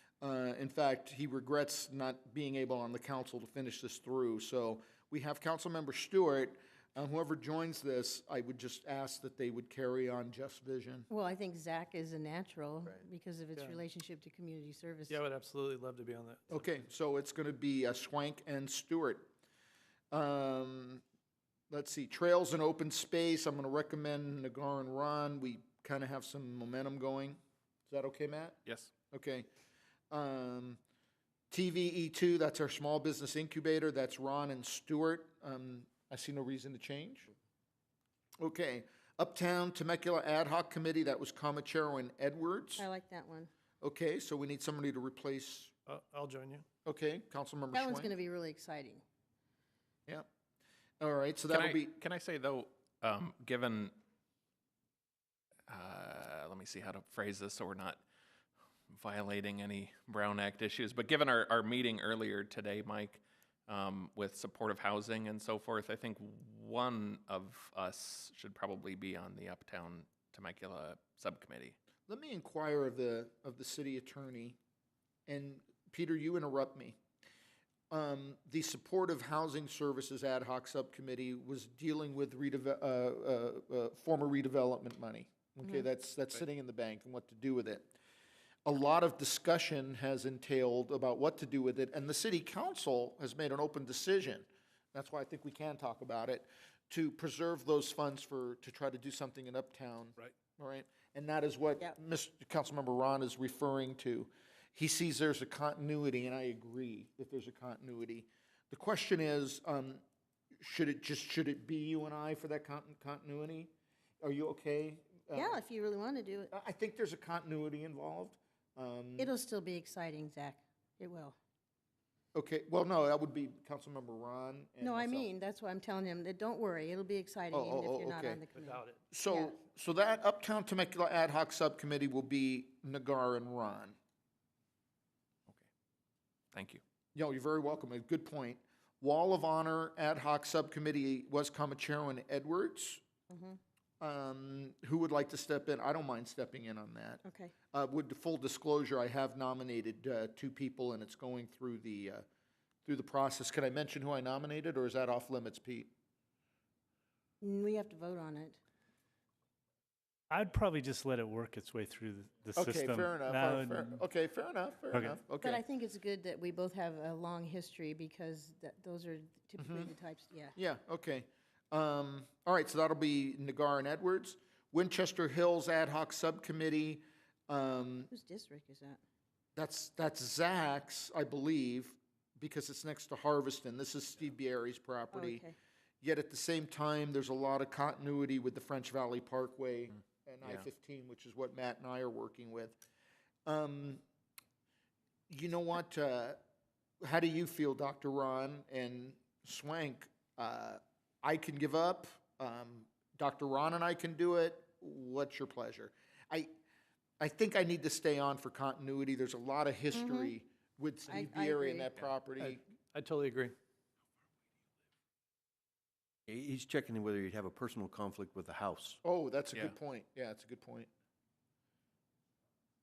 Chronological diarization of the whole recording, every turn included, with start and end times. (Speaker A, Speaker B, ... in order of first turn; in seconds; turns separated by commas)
Speaker A: 0.2-11.1, Speaker B: 11.1-15.2, Speaker C: 13.6-13.8, Speaker C: 15.1-16.7, Speaker A: 16.5-19.3, Speaker A: 20.1-21.0, Speaker A: 21.7-28.6, Speaker D: 28.6-28.9, Speaker A: 29.1-29.4, Speaker A: 30.1-30.8, Speaker A: 31.5-37.3, Speaker A: 38.4-42.9, Speaker B: 42.8-43.5, Speaker A: 43.8-45.7, Speaker C: 45.9-46.6, Speaker A: 46.8-48.1, Speaker B: 47.7-49.0, Speaker A: 51.0-51.9, Speaker D: 51.5-53.9, Speaker D: 55.7-58.0, Speaker D: 58.9-71.8, Speaker A: 72.1-74.6, Speaker A: 75.3-77.0, Speaker A: 77.9-87.9, Speaker A: 88.7-110.0, Speaker A: 110.6-113.7, Speaker A: 114.2-115.6, Speaker B: 115.3-116.5, Speaker A: 116.5-119.3, Speaker B: 119.2-121.3, Speaker A: 122.3-125.3, Speaker B: 124.8-129.6, Speaker A: 127.5-128.4, Speaker C: 128.5-129.0, Speaker A: 129.1-133.9, Speaker D: 136.5-136.8, Speaker A: 137.1-143.0, Speaker B: 143.3-143.6, Speaker A: 144.0-152.2, Speaker B: 147.2-147.5, Speaker A: 152.8-155.9, Speaker B: 157.4-158.6, Speaker E: 160.3-164.0, Speaker A: 162.5-165.6, Speaker E: 164.9-165.2, Speaker B: 165.4-170.5, Speaker A: 169.6-169.9, Speaker A: 170.6-178.1, Speaker B: 178.1-179.0, Speaker A: 179.6-185.4, Speaker B: 185.1-185.5, Speaker A: 186.0-192.8, Speaker A: 193.4-194.0, Speaker A: 195.3-196.4, Speaker A: 197.0-206.5, Speaker A: 207.2-212.6, Speaker B: 209.9-210.3, Speaker B: 211.1-211.9, Speaker C: 212.4-213.5, Speaker F: 216.3-219.0, Speaker A: 219.0-220.9